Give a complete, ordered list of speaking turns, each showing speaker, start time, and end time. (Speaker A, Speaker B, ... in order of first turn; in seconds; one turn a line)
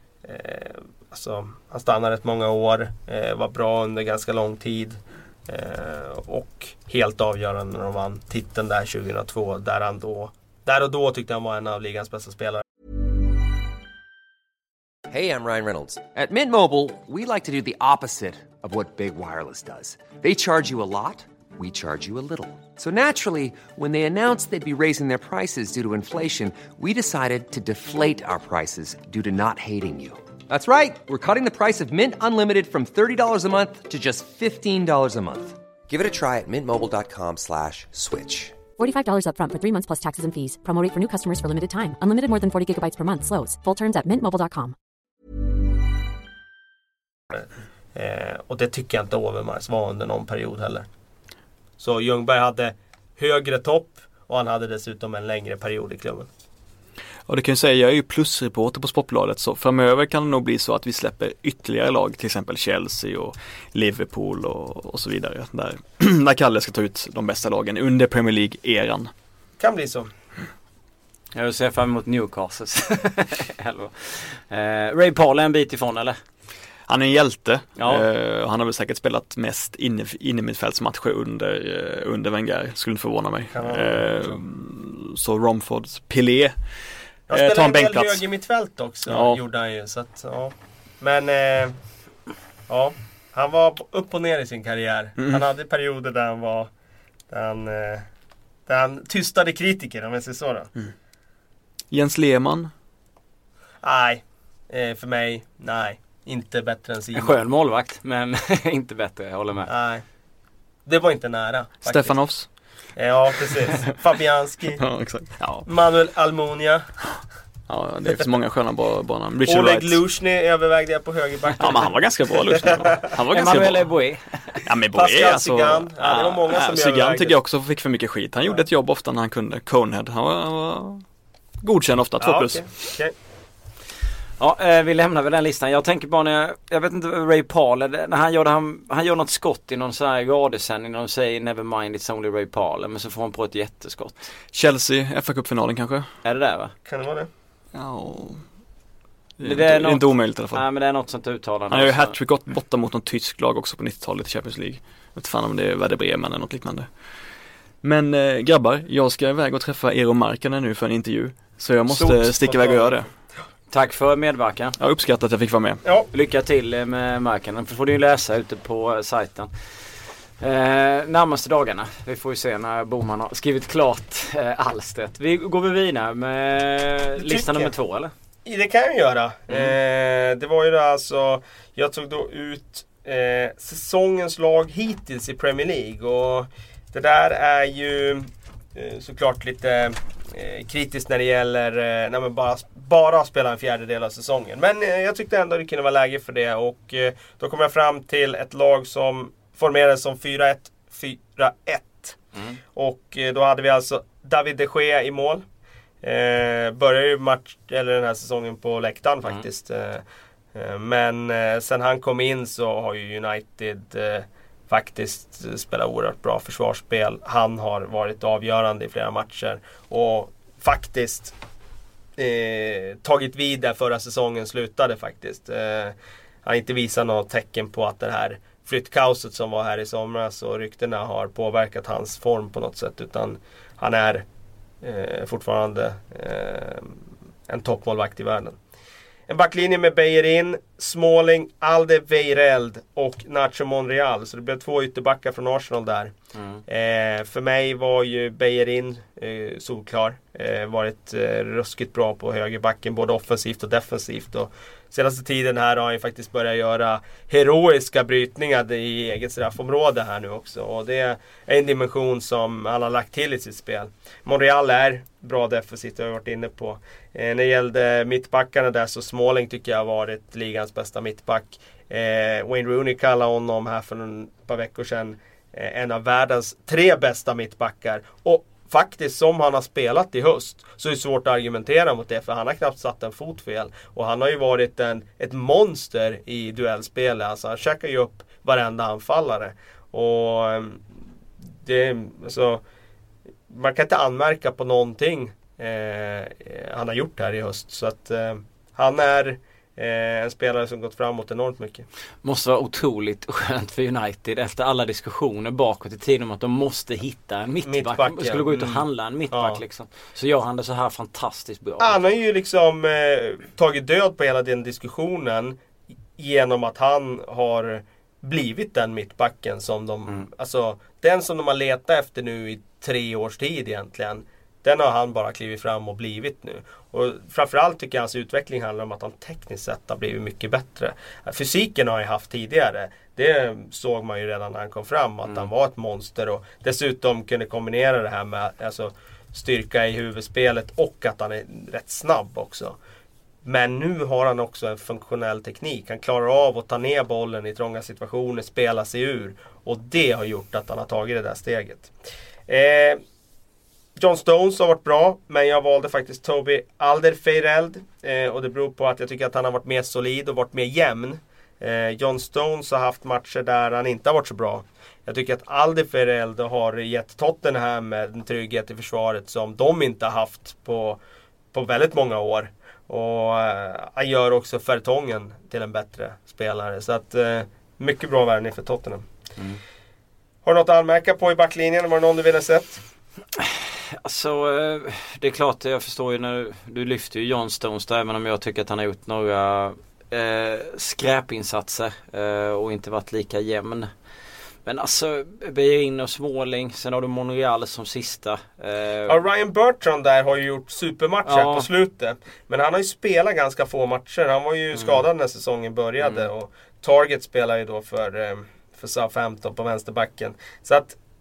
Speaker A: 0.2-12.6
Speaker B: 15.1-38.6
Speaker C: 38.8-44.7
Speaker A: 47.3-50.9
Speaker A: 51.8-56.3
Speaker D: 57.3-69.1
Speaker A: 69.6-70.1
Speaker E: 71.3-76.2
Speaker D: 76.9-86.5
Speaker E: 77.8-78.0
Speaker A: 83.5-84.4
Speaker A: 87.3-91.8
Speaker D: 87.3-88.2
Speaker D: 89.1-89.4
Speaker A: 92.7-96.7
Speaker A: 97.3-98.1
Speaker A: 98.7-100.7
Speaker D: 101.9-102.7
Speaker A: 103.8-107.3
Speaker E: 107.2-109.7
Speaker A: 109.7-110.0
Speaker A: 110.8-112.2
Speaker D: 111.8-112.5
Speaker A: 113.0-114.8
Speaker D: 114.8-115.7
Speaker A: 115.7-116.8
Speaker D: 117.7-120.0
Speaker A: 119.5-123.1
Speaker D: 121.6-123.9
Speaker E: 123.3-124.6
Speaker D: 124.7-131.0
Speaker A: 124.9-127.3
Speaker D: 131.6-132.7
Speaker A: 132.2-133.1
Speaker E: 134.4-144.3
Speaker D: 144.5-146.1
Speaker E: 146.2-146.7
Speaker A: 146.8-147.3
Speaker D: 147.7-148.4
Speaker D: 149.4-150.6
Speaker E: 149.4-152.2
Speaker D: 151.7-156.9
Speaker D: 157.8-163.1
Speaker A: 162.1-163.0
Speaker E: 163.7-164.8
Speaker D: 164.8-165.8
Speaker E: 166.1-169.5
Speaker E: 170.4-178.1
Speaker A: 177.2-177.7
Speaker A: 178.4-202.2
Speaker A: 202.7-205.4
Speaker A: 206.0-210.0
Speaker A: 210.5-221.3
Speaker A: 222.2-234.2
Speaker A: 234.8-238.6
Speaker A: 239.3-246.1
Speaker E: 246.3-246.6
Speaker A: 246.7-290.8
Speaker A: 291.6-292.6
Speaker A: 293.5-301.9
Speaker E: 302.2-312.0
Speaker A: 307.6-309.6
Speaker A: 311.8-315.6
Speaker A: 316.2-342.8
Speaker A: 343.4-351.9
Speaker A: 352.5-353.0
Speaker A: 354.0-371.0
Speaker A: 371.5-379.0
Speaker A: 380.4-382.8
Speaker E: 383.4-393.9
Speaker E: 394.6-399.1
Speaker A: 399.1-411.0
Speaker E: 401.3-401.7
Speaker E: 404.7-405.0
Speaker E: 406.0-406.3